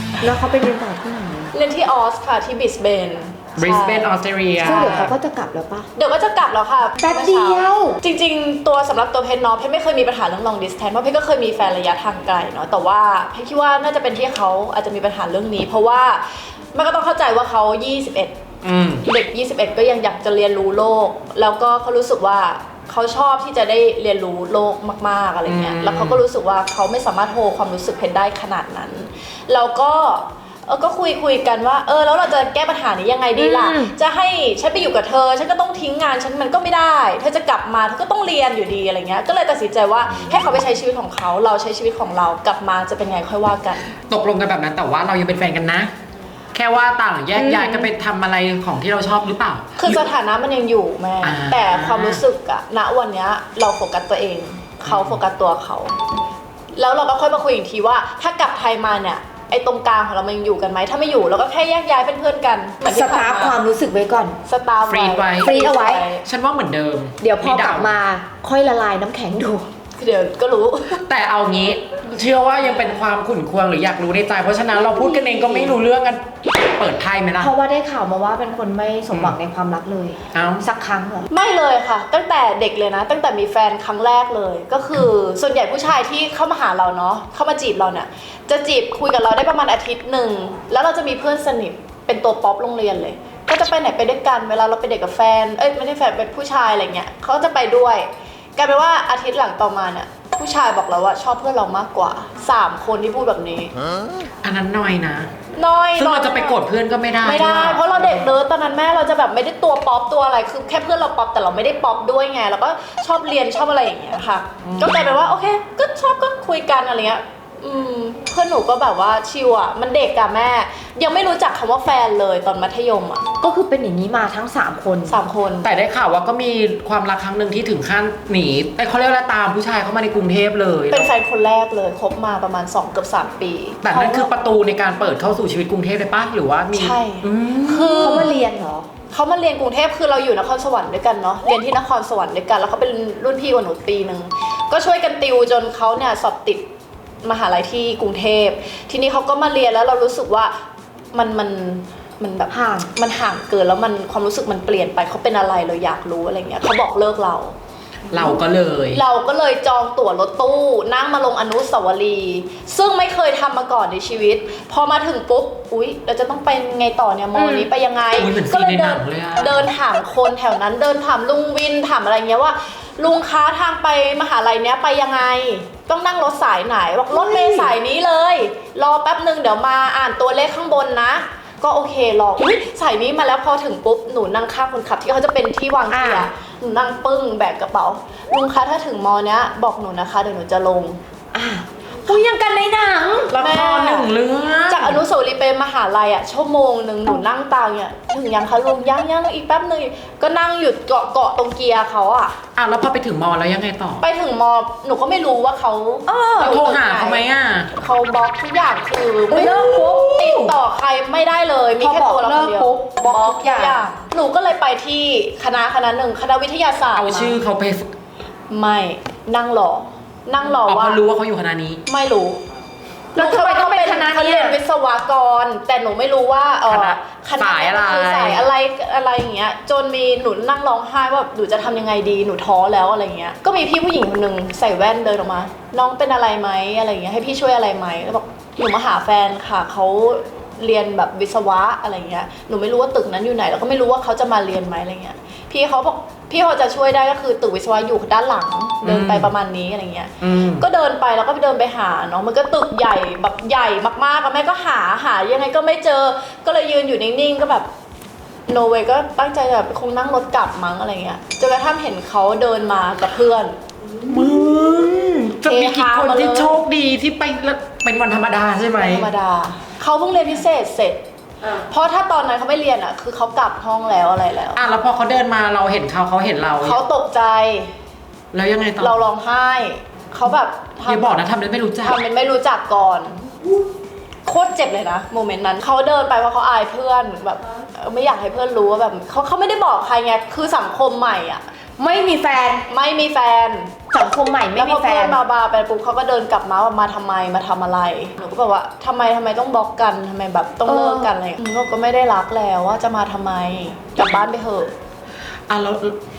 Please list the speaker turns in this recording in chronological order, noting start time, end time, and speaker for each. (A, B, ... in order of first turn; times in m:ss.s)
0:00.2-0:01.5 A
0:01.5-0:05.1 B
0:03.6-0:05.1 C
0:04.6-0:05.9 A
0:06.0-0:18.4 B
0:07.0-0:08.0 A
0:18.6-0:19.0 C
0:19.0-0:43.9 B
0:25.4-0:26.2 C
0:33.3-0:33.9 A
0:44.1-0:45.9 C
0:46.5-0:50.0 C
0:47.3-0:47.9 A
0:49.8-0:55.9 B
0:51.2-0:52.2 C
0:54.8-0:55.2 C
0:56.8-1:03.6 B
1:02.8-1:04.4 A
1:04.4-1:06.2 B
1:04.9-1:05.5 C
1:05.4-1:06.1 A
1:06.2-1:08.0 C
1:07.2-1:09.7 A
1:10.0-1:11.0 B
1:11.0-1:17.5 C
1:15.1-1:15.7 A
1:17.4-1:21.3 A
1:20.3-1:20.6 C
1:21.3-1:43.7 B
1:44.4-1:45.3 C
1:45.6-1:46.6 B
1:46.0-1:48.3 C
1:47.2-2:03.2 B
1:54.6-1:55.3 C
2:03.4-2:05.2 A
2:05.1-2:05.7 B
2:05.6-2:11.1 C
2:10.9-2:14.3 B
2:13.8-2:18.4 C
2:16.7-2:18.4 B
2:17.9-2:18.9 A
2:19.1-2:26.7 B
2:27.2-2:30.5 B
2:31.1-2:37.5 B
2:32.5-2:32.9 A
2:38.1-2:39.0 C
2:38.9-3:11.0 B
2:47.4-2:47.7 A
2:48.2-2:49.7 C
2:57.1-2:57.7 A
3:05.9-3:06.3 A
3:11.3-3:13.3 A
3:13.3-3:14.1 B
3:13.3-3:15.0 C
3:14.7-3:22.3 B
3:22.5-3:24.0 C
3:24.0-3:37.4 B
3:26.1-3:26.6 A
3:26.4-3:27.7 C
3:29.3-3:30.5 A
3:29.4-3:30.4 C
3:31.8-3:33.8 A
3:36.9-3:37.9 C
3:38.5-3:41.0 B
3:40.5-3:41.8 C
3:41.9-3:42.4 B
3:43.1-3:44.6 A
3:43.2-4:17.7 B
3:46.7-3:48.4 C
4:08.8-4:09.3 C
4:10.2-4:10.6 C
4:18.5-4:23.6 B
4:24.1-4:29.1 C
4:25.4-4:26.6 B
4:28.8-4:34.6 B
4:34.5-4:36.8 C
4:36.6-4:37.7 B
4:38.3-4:39.0 C
4:38.8-4:41.2 B
4:40.8-4:42.0 C
4:41.8-4:43.5 B
4:44.2-4:51.4 B
4:51.8-4:52.6 A
4:52.7-4:53.7 B
4:53.9-4:55.2 A
4:54.5-5:04.7 B
5:00.6-5:01.1 A
5:05.5-5:06.0 C